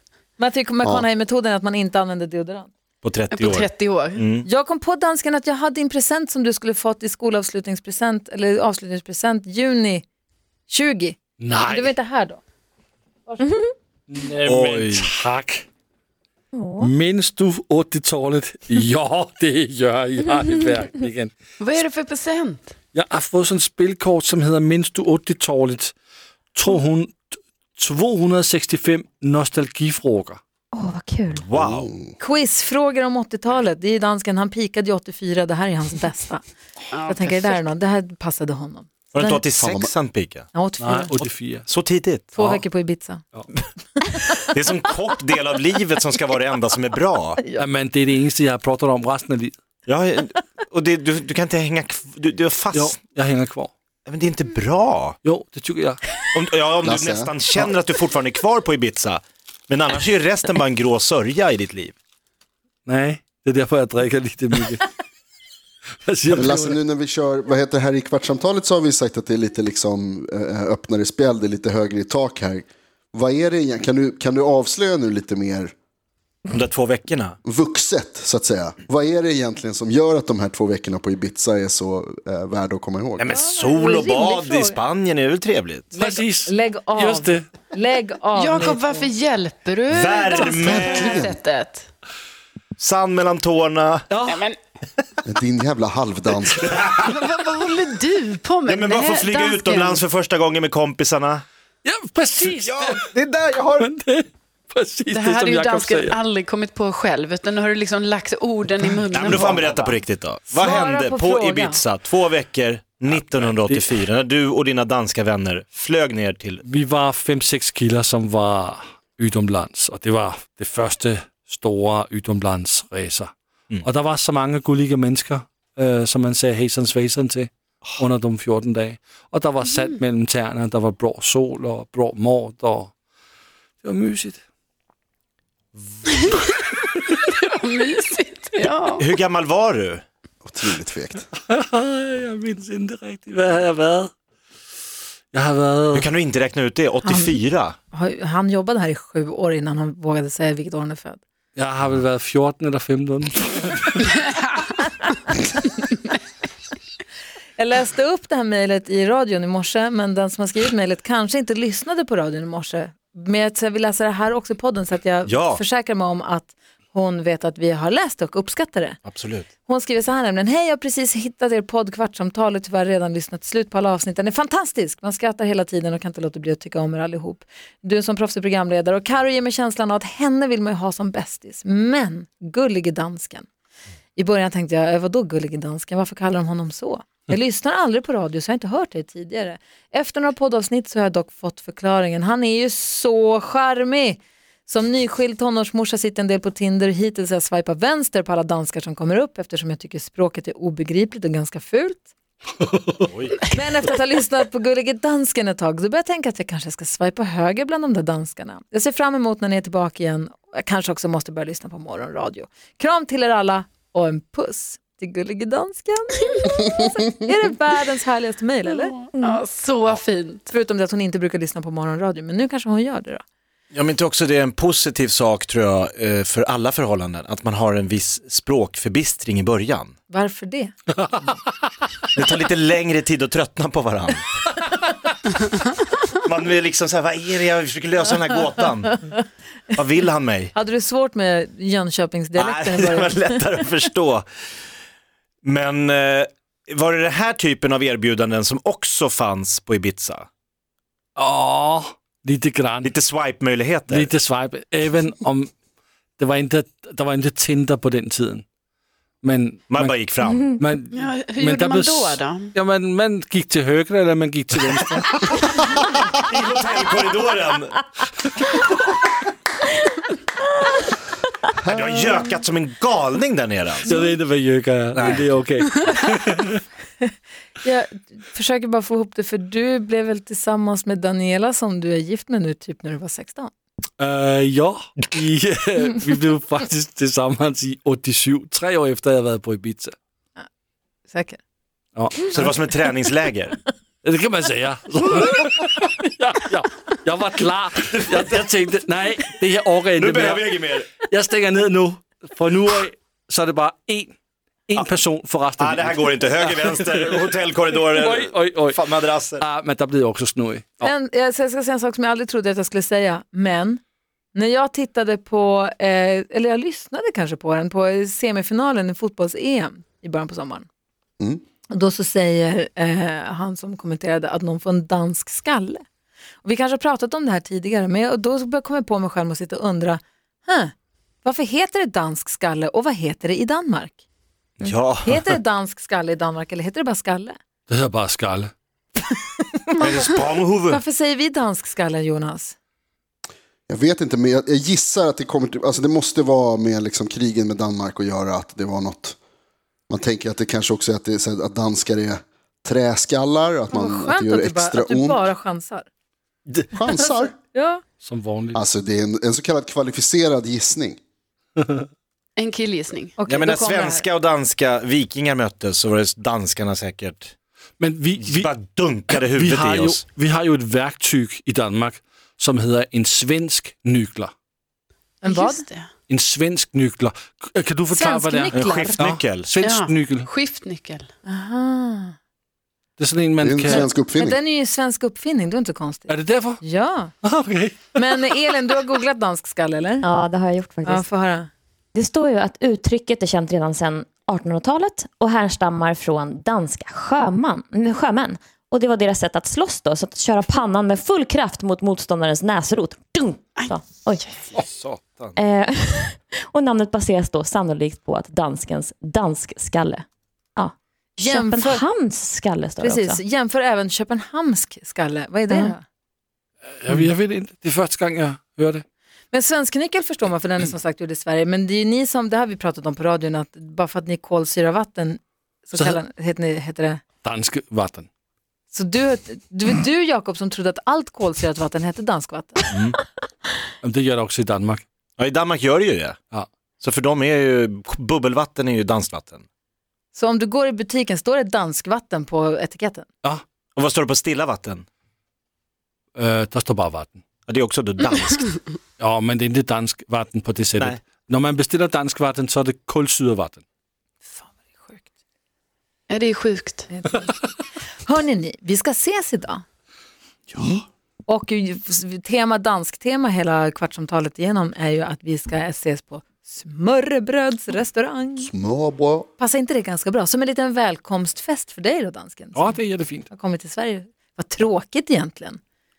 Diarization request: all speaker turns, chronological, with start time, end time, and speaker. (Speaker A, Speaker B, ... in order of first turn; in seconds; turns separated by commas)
Speaker A: 0.4-2.7, Speaker B: 3.0-4.4, Speaker C: 3.3-4.2, Speaker A: 4.4-10.1, Speaker A: 10.7-12.4, Speaker D: 11.4-11.9, Speaker A: 13.3-13.7, Speaker D: 14.1-15.7, Speaker B: 14.4-15.1, Speaker E: 16.5-16.9, Speaker D: 16.8-21.3, Speaker C: 21.6-22.7, Speaker D: 22.9-25.9, Speaker D: 26.5-30.4, Speaker E: 30.7-31.4, Speaker B: 31.3-31.9, Speaker F: 31.6-32.1, Speaker A: 32.2-36.4, Speaker C: 36.9-37.6, Speaker A: 37.1-39.4, Speaker B: 39.1-40.5, Speaker F: 39.6-39.9, Speaker A: 40.5-41.1, Speaker D: 40.8-41.7, Speaker B: 41.2-42.6, Speaker A: 42.3-43.2, Speaker B: 44.4-47.4, Speaker D: 47.5-49.5, Speaker B: 49.9-53.0, Speaker D: 52.7-53.7, Speaker B: 54.1-55.2, Speaker D: 55.2-56.0, Speaker B: 56.3-61.9, Speaker F: 56.8-57.3, Speaker D: 62.9-64.9, Speaker D: 66.1-66.8, Speaker F: 66.3-75.7, Speaker B: 76.5-77.4, Speaker F: 77.4-83.3, Speaker B: 83.2-85.9, Speaker A: 83.3-84.8, Speaker A: 86.0-89.1, Speaker D: 86.0-87.5, Speaker C: 88.3-91.9, Speaker B: 89.9-91.2, Speaker F: 90.7-91.3, Speaker B: 92.8-94.1, Speaker D: 94.1-94.4, Speaker C: 94.3-94.6, Speaker F: 95.2-96.8, Speaker B: 96.6-97.0, Speaker C: 97.1-100.0, Speaker B: 98.7-101.4, Speaker D: 101.8-103.1, Speaker B: 102.7-103.8, Speaker D: 103.8-106.2, Speaker C: 105.1-110.0, Speaker B: 109.1-116.6, Speaker A: 110.5-111.8, Speaker D: 113.1-114.0, Speaker D: 116.7-132.9, Speaker D: 133.8-134.4, Speaker C: 136.1-136.4, Speaker C: 137.2-139.1, Speaker B: 139.0-140.0, Speaker F: 140.4-141.2, Speaker D: 141.5-144.1, Speaker D: 145.3-146.1, Speaker B: 145.9-147.8, Speaker A: 147.0-147.3, Speaker A: 147.9-151.2, Speaker D: 151.6-154.2, Speaker A: 157.6-169.0, Speaker B: 165.2-165.6, Speaker B: 169.1-169.5, Speaker A: 169.7-183.5, Speaker A: 184.2-202.1, Speaker B: 203.1-203.4, Speaker A: 203.4-219.1, Speaker C: 219.1-220.5, Speaker A: 220.5-223.2, Speaker B: 223.7-229.9, Speaker A: 230.1-230.7, Speaker D: 231.0-231.4, Speaker B: 232.1-234.2, Speaker B: 236.1-239.1, Speaker B: 239.7-240.5, Speaker A: 240.5-243.4, Speaker B: 242.3-244.2, Speaker B: 245.4-250.3, Speaker D: 251.2-252.9, Speaker B: 252.8-254.1, Speaker D: 253.9-255.5, Speaker D: 256.2-258.4, Speaker D: 259.2-265.7, Speaker B: 259.7-260.5, Speaker C: 260.9-262.5, Speaker B: 266.1-267.8, Speaker F: 271.6-272.1, Speaker B: 271.7-274.0, Speaker D: 273.9-276.6, Speaker B: 274.9-275.3, Speaker A: 277.6-283.5, Speaker D: 284.0-289.9, Speaker A: 291.1-291.4, Speaker D: 291.9-292.5, Speaker B: 292.3-293.6, Speaker D: 294.0-304.1, Speaker B: 300.0-300.9, Speaker D: 304.7-310.9, Speaker B: 305.6-309.4, Speaker A: 310.8-313.8, Speaker A: 314.3-320.7, Speaker A: 321.7-325.8, Speaker A: 326.4-334.0, Speaker B: 334.6-335.2, Speaker A: 335.1-337.4, Speaker D: 337.7-338.5, Speaker B: 339.8-340.8, Speaker A: 340.7-342.6, Speaker F: 343.7-349.2, Speaker F: 349.9-355.2, Speaker A: 353.7-355.9, Speaker F: 356.7-357.4, Speaker A: 357.1-357.8, Speaker D: 358.0-358.6, Speaker F: 358.5-361.0, Speaker D: 361.6-361.9, Speaker C: 362.4-363.2, Speaker A: 363.2-364.0, Speaker B: 363.2-367.3, Speaker D: 367.8-374.3, Speaker B: 368.2-370.0, Speaker A: 375.2-375.6, Speaker C: 375.2-375.9, Speaker D: 376.1-380.3, Speaker A: 377.9-379.0, Speaker B: 378.5-379.5, Speaker C: 379.6-381.1, Speaker A: 381.2-382.1, Speaker D: 383.0-383.9, Speaker F: 383.4-384.4, Speaker A: 383.7-387.1, Speaker D: 386.1-386.6, Speaker D: 387.2-388.0, Speaker A: 388.0-390.1, Speaker E: 390.0-391.0, Speaker A: 390.8-391.5, Speaker E: 391.9-404.2, Speaker B: 404.5-405.4, Speaker E: 405.4-410.0, Speaker E: 410.6-413.2, Speaker A: 411.2-411.8, Speaker A: 412.8-415.8, Speaker E: 415.5-415.8, Speaker D: 416.8-418.8, Speaker A: 419.3-427.0, Speaker D: 427.2-428.1, Speaker A: 428.7-432.7, Speaker B: 432.7-433.0, Speaker D: 433.8-434.8, Speaker B: 435.2-436.1, Speaker B: 436.8-439.4, Speaker A: 440.1-443.1, Speaker B: 443.8-444.9, Speaker D: 446.1-447.2, Speaker B: 447.5-448.5, Speaker D: 449.0-453.6, Speaker A: 454.2-455.0, Speaker C: 456.1-456.9, Speaker A: 456.9-457.2, Speaker A: 458.0-459.6, Speaker A: 461.3-468.5, Speaker F: 468.4-469.3, Speaker A: 469.4-475.6, Speaker D: 472.5-473.3